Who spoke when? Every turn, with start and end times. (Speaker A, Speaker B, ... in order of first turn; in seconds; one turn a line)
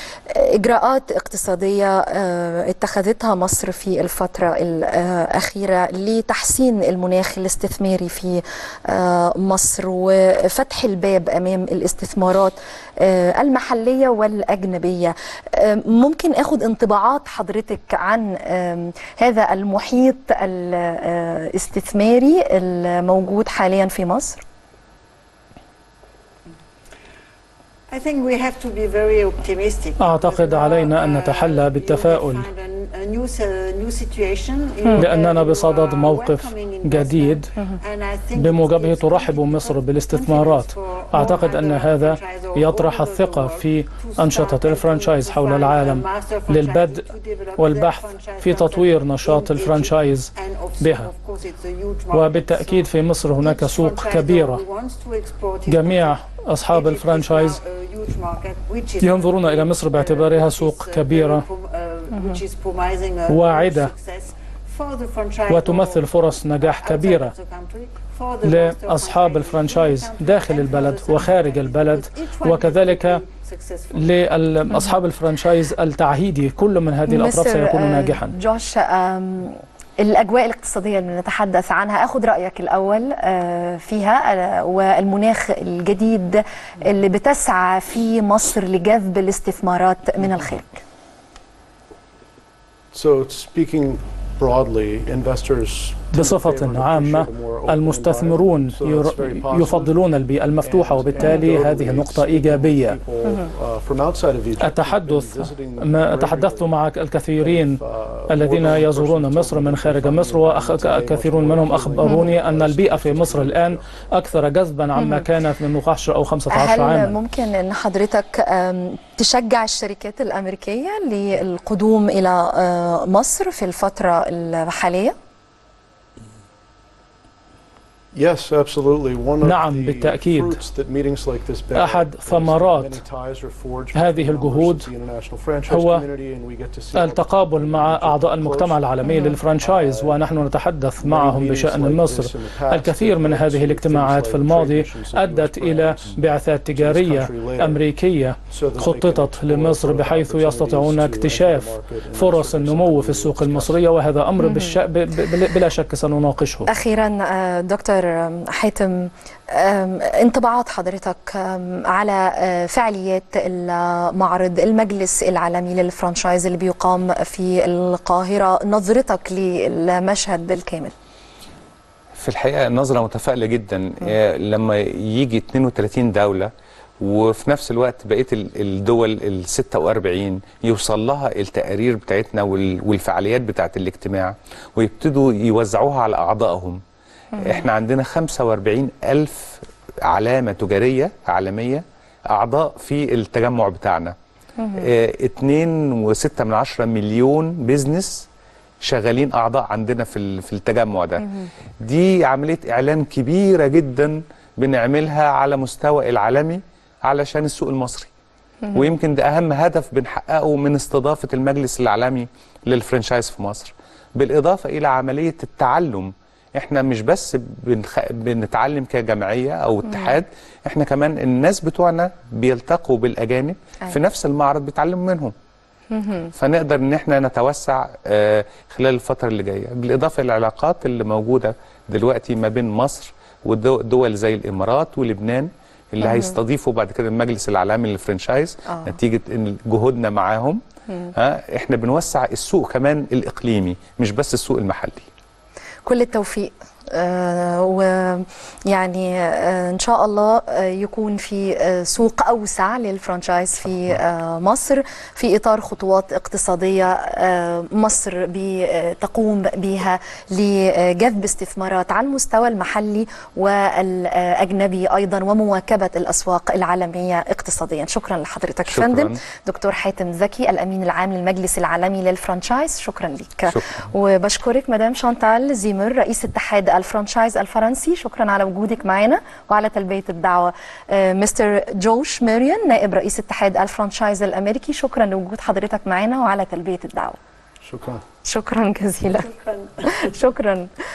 Speaker A: 0.3-24.4
Speaker B: 27.9-52.9
Speaker C: 30.0-32.5
Speaker C: 35.0-37.5
Speaker C: 38.4-51.1
Speaker C: 52.1-54.6
Speaker B: 53.4-56.2
Speaker C: 55.7-57.6
Speaker B: 56.7-74.3
Speaker C: 59.0-61.4
Speaker C: 63.3-63.9
Speaker C: 65.5-67.3
Speaker C: 68.4-73.2
Speaker C: 73.9-78.3
Speaker A: 77.1-90.8
Speaker D: 92.9-114.1
Speaker C: 96.1-103.0
Speaker A: 101.2-101.5
Speaker C: 104.6-117.2
Speaker A: 112.0-112.3
Speaker A: 115.0-115.3
Speaker A: 116.5-125.2
Speaker D: 128.1-140.4
Speaker C: 129.4-130.6
Speaker C: 131.8-133.0
Speaker C: 133.9-134.9
Speaker C: 135.7-136.1
Speaker C: 136.9-156.7
Speaker A: 139.0-139.4
Speaker D: 141.0-147.9
Speaker D: 148.5-153.9
Speaker A: 154.4-154.8
Speaker A: 156.7-170.9
Speaker E: 172.2-186.8
Speaker A: 187.3-187.7
Speaker E: 187.4-194.2
Speaker A: 194.6-194.9
Speaker E: 194.8-198.3
Speaker E: 198.8-208.1
Speaker A: 201.2-201.5
Speaker E: 208.7-225.3
Speaker A: 219.9-220.2
Speaker A: 225.9-226.3
Speaker E: 226.3-240.6
Speaker A: 236.0-236.4
Speaker A: 238.7-239.0
Speaker E: 241.2-245.1
Speaker A: 245.8-287.2
Speaker E: 268.7-269.2
Speaker E: 273.5-273.7
Speaker D: 287.6-288.0
Speaker A: 288.2-289.3
Speaker B: 289.1-290.1
Speaker A: 289.8-290.7